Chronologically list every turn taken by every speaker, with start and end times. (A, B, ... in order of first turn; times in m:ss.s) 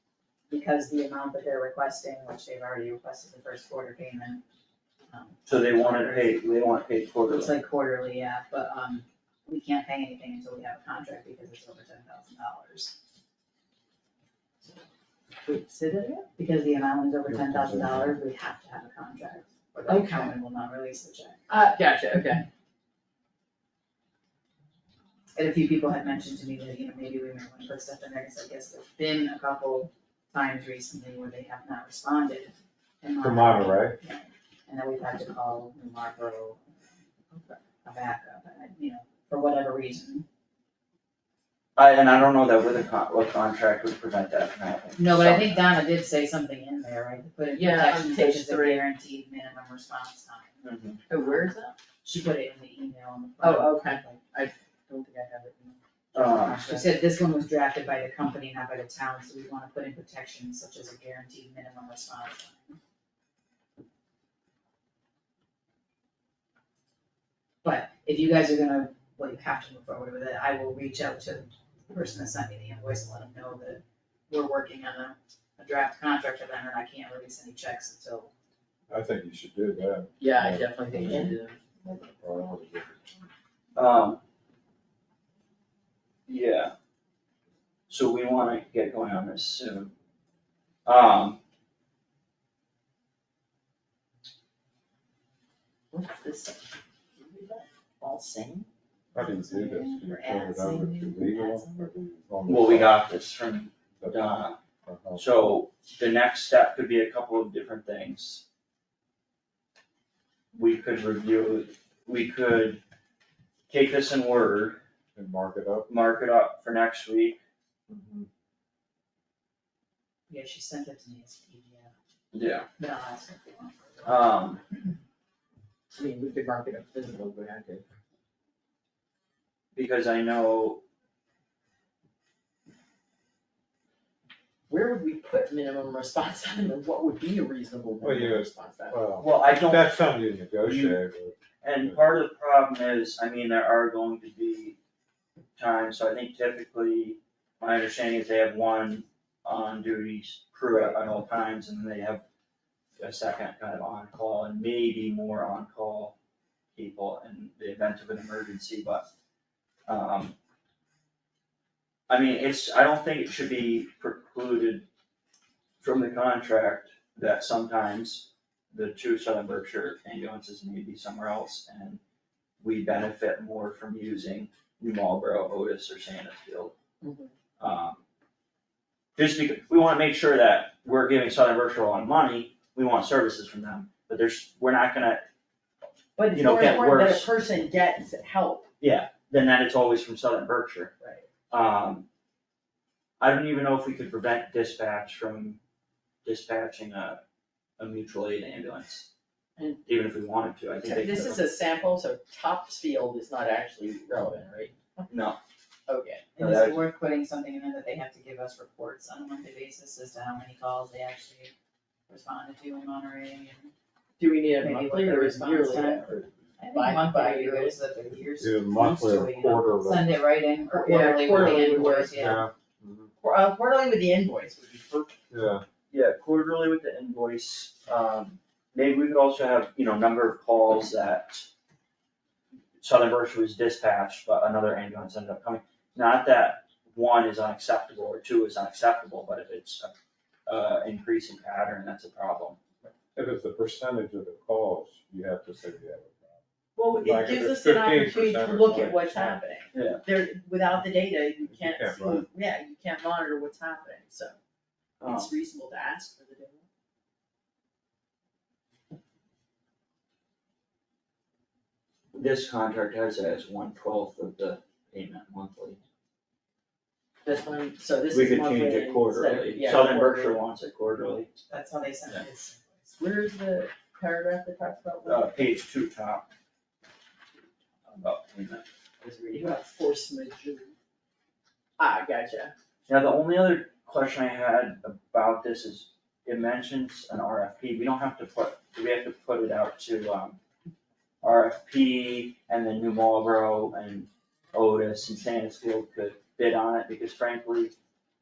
0:00.5-0:04.4 A
0:05.1-0:06.4 A
0:05.5-0:07.5 B
0:07.3-0:13.0 A
0:15.4-0:16.3 C
0:16.4-0:21.4 A
0:17.3-0:18.2 D
0:19.9-0:20.3 C
0:21.5-0:22.5 C
0:25.4-0:36.9 A
0:33.2-0:34.0 D
0:37.3-0:37.6 C
0:37.8-0:40.3 A
0:41.8-0:45.6 B
0:45.0-0:50.6 A
0:47.5-0:48.8 C
0:50.6-0:51.0 B
0:51.1-0:51.7 C
0:51.2-0:54.2 A
0:53.4-0:55.8 C
0:56.2-0:56.9 B
0:56.2-1:02.8 A
1:07.6-1:18.3 A
1:18.9-1:23.1 D
1:20.2-1:21.6 C
1:23.8-1:24.2 B
1:26.3-1:26.7 B
1:27.9-1:29.9 B
1:30.9-1:31.4 B
1:35.9-1:38.7 C
1:39.1-1:43.0 D
1:39.2-1:42.0 A
1:42.5-1:44.6 B
1:44.0-1:45.2 D
1:45.2-1:48.4 B
1:50.5-1:52.8 B
1:53.7-1:54.8 B
1:55.2-1:55.9 D
1:55.9-1:57.4 B
1:57.9-1:58.3 D
2:00.3-2:01.9 A
2:02.3-2:02.7 B
2:02.8-2:04.2 A
2:04.0-2:04.6 B
2:06.0-2:07.8 C
2:09.7-2:10.8 B
2:14.7-2:19.0 C
2:18.0-2:22.0 D
2:19.2-2:20.0 B
2:20.6-2:21.0 B
2:21.6-2:24.8 B
2:25.6-2:32.2 B
2:33.0-2:36.2 B
2:36.8-2:39.1 B
2:39.9-2:40.4 B
2:42.1-2:44.9 B
2:45.8-2:52.0 B
2:52.6-2:56.8 B
2:57.0-2:57.3 C
2:57.6-2:58.0 B
2:59.2-3:05.2 B
3:06.2-3:08.7 C
3:06.3-3:07.3 B
3:08.8-3:10.9 B
3:11.0-3:11.3 C
3:11.5-3:12.1 B
3:13.2-3:15.6 B
3:16.2-3:17.2 B
3:17.8-3:19.1 B
3:19.8-3:21.4 B
3:20.8-3:25.1 C
3:25.1-3:25.4 B
3:25.9-3:26.3 C
3:26.4-3:31.5 A
3:26.4-3:26.8 B
3:32.1-3:33.7 A
3:34.2-3:36.1 C
3:34.6-3:42.5 A
3:36.0-3:36.5 D
3:36.7-3:37.8 C
3:38.4-3:40.1 D
3:40.7-3:42.2 C
3:42.1-3:43.1 D
3:43.2-3:45.2 C
3:45.3-3:45.6 D
3:45.9-3:51.5 B
3:52.8-3:59.9 B
4:00.5-4:02.6 B
4:03.2-4:06.4 D
4:06.8-4:14.3 C
4:06.9-4:09.4 D
4:09.7-4:10.0 B
4:11.5-4:12.2 D
4:15.0-4:15.3 B
4:15.1-4:16.7 C
4:22.1-4:25.8 B
4:27.2-4:30.4 C
4:28.1-4:31.3 B
4:31.5-4:32.9 A
4:33.0-4:35.3 C
4:35.0-4:36.3 B
4:37.9-4:38.6 B
4:39.0-4:40.7 C
4:41.8-4:42.5 C
4:42.9-4:50.4 B
4:51.2-4:57.8 B